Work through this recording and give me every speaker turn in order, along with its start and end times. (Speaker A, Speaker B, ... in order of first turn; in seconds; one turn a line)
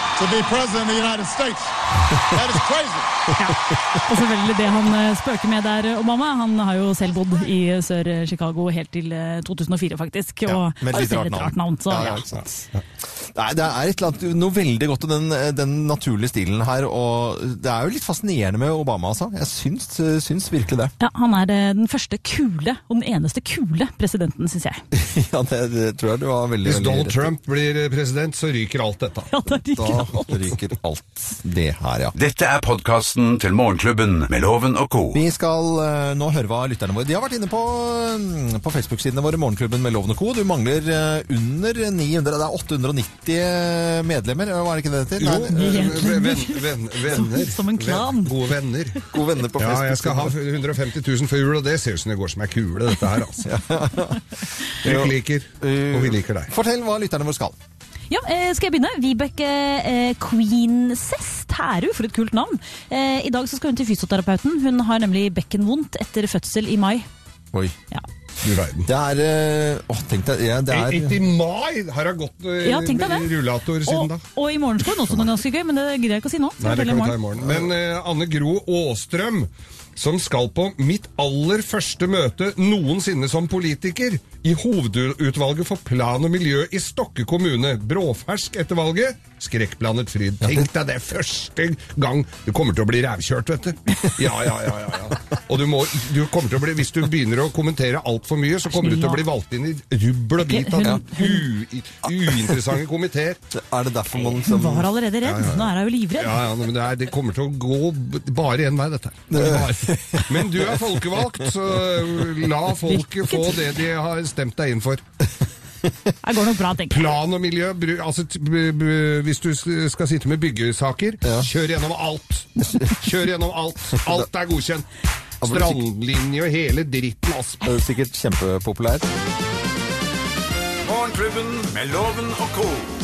Speaker A: 0.1-3.2
Speaker B: 3.3-12.2
Speaker C: 10.4-20.9
Speaker B: 21.0-24.8
Speaker C: 24.9-27.3
Speaker D: 26.6-29.3
Speaker B: 29.3-30.5
Speaker C: 29.8-32.1
Speaker E: 32.1-35.2
Speaker C: 35.1-46.1
Speaker D: 45.2-49.0
Speaker B: 45.5-48.3
Speaker C: 49.1-50.4
Speaker D: 49.6-53.5
Speaker C: 53.4-54.2
Speaker C: 54.8-57.5
Speaker D: 54.8-56.5
Speaker B: 58.1-67.0
Speaker D: 68.4-68.9
Speaker C: 68.8-71.2
Speaker D: 70.7-74.2
Speaker B: 72.6-73.3
Speaker B: 73.8-77.2
Speaker C: 75.0-75.3
Speaker D: 76.6-103.4
Speaker C: 77.4-77.7
Speaker C: 90.4-90.7
Speaker B: 98.7-99.2
Speaker B: 100.4-101.4
Speaker C: 102.1-102.6
Speaker C: 103.5-104.9
Speaker B: 104.1-106.4
Speaker D: 105.2-115.0
Speaker C: 109.3-111.5
Speaker B: 112.9-113.6
Speaker B: 116.2-117.1
Speaker D: 116.9-124.8
Speaker C: 122.6-122.9
Speaker C: 125.4-125.8
Speaker D: 125.4-127.7
Speaker C: 127.6-129.1
Speaker E: 130.8-132.9